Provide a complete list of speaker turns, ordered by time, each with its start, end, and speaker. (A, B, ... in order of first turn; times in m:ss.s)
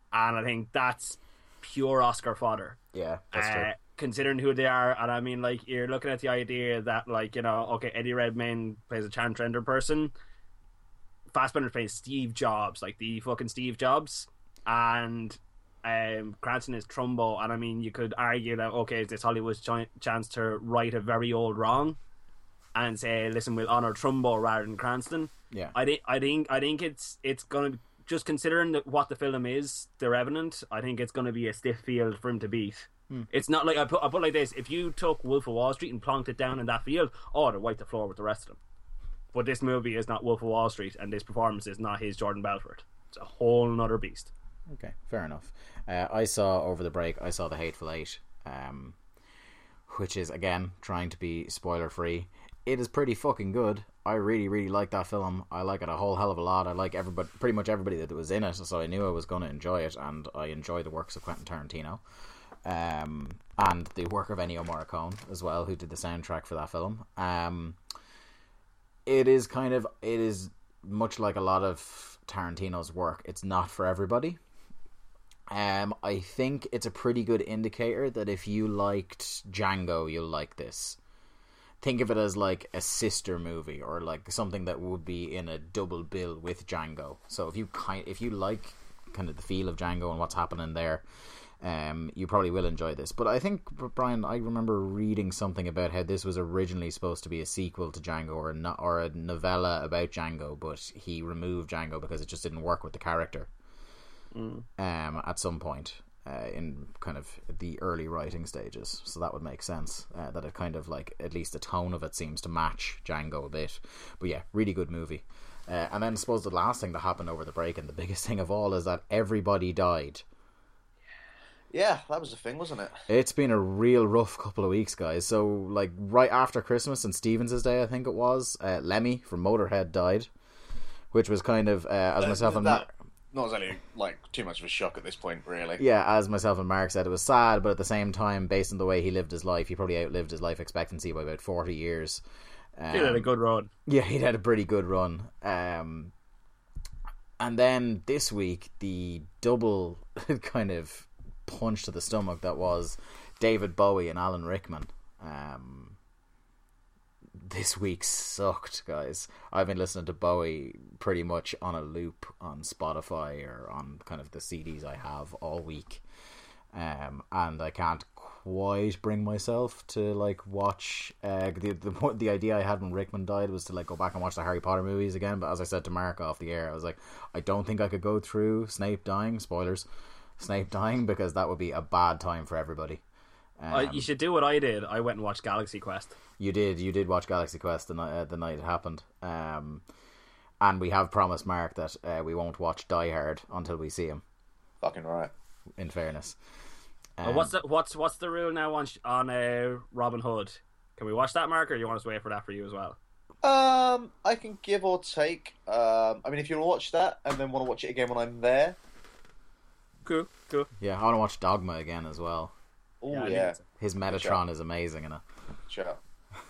0:00.1-0:02.8 A
0:02.9-0:03.7 B
0:03.3-0:10.1 A
0:11.3-0:22.0 A
0:22.8-0:38.6 A
0:25.5-0:25.8 B
0:39.3-0:44.3 A
0:44.7-0:49.0 B
0:49.9-1:02.0 B
1:02.6-1:07.8 B
1:09.1-1:14.4 B
1:15.5-1:21.0 B
1:21.8-1:31.0 B
1:31.6-1:43.5 B
1:44.3-1:44.7 A
1:44.8-2:00.2 B
2:01.7-2:03.0 C
2:03.1-2:10.3 B
2:11.1-2:12.9 B
2:12.2-2:15.8 C
2:15.8-2:22.2 B
2:22.8-2:23.3 B
2:22.9-2:23.7 A
2:23.9-2:26.1 B
2:27.4-2:36.0 B
2:37.4-2:46.0 B
2:46.7-2:59.9 B
3:00.4-3:03.0 B
3:03.6-3:04.1 B
3:03.7-3:06.2 A
3:06.4-3:09.8 B
3:10.6-3:14.2 B
3:14.8-3:15.3 C
3:15.8-3:16.4 B
3:17.2-3:17.5 B
3:17.2-3:23.0 A
3:23.4-3:28.8 C
3:30.0-3:30.7 A
3:30.8-3:32.5 B
3:33.0-3:33.6 C
3:33.1-3:33.6 A
3:33.8-3:35.2 B
3:34.1-3:34.4 C
3:35.7-3:36.0 C